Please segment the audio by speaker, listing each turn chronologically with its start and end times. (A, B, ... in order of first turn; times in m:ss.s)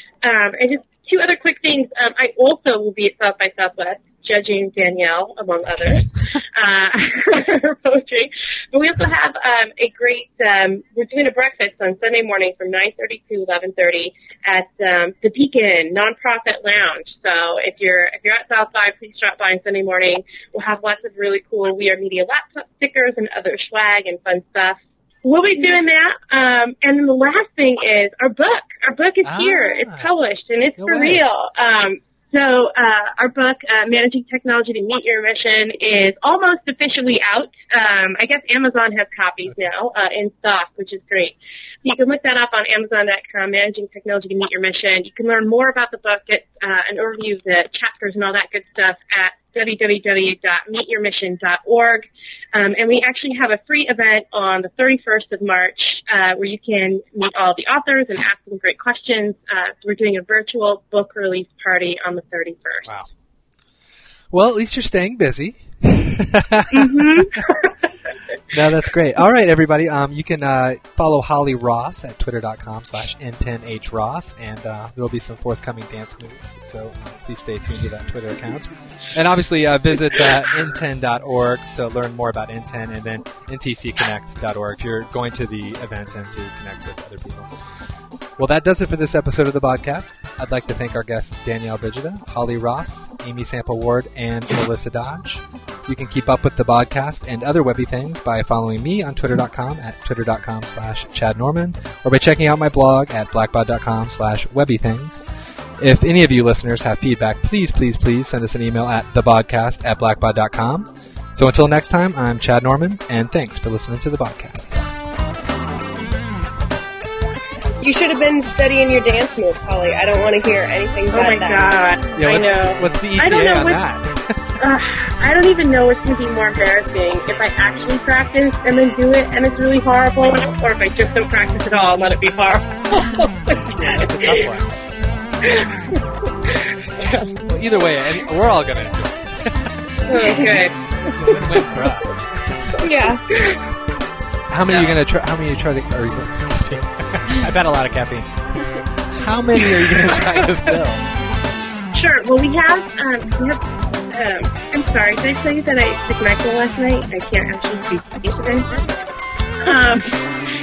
0:00.2-1:02.9 A
0:29.2-0:30.1 B
0:30.8-0:31.2 B
1:04.3-1:07.5 B
1:06.7-1:07.6 A
1:08.5-1:27.8 B
1:28.4-1:45.2 B
1:45.8-1:54.8 B
1:57.8-2:01.7 C
2:01.1-2:03.8 A
2:02.1-2:04.5 B
2:04.6-2:14.3 A
2:13.7-2:14.7 B
2:15.5-2:16.0 A
2:17.0-2:17.3 A
2:17.4-2:19.7 B
2:20.0-2:20.8 A
2:21.1-2:22.8 B
2:22.8-2:23.2 C
2:23.3-2:23.6 A
2:24.5-2:31.1 B
2:31.9-2:38.7 A
2:39.6-2:40.2 A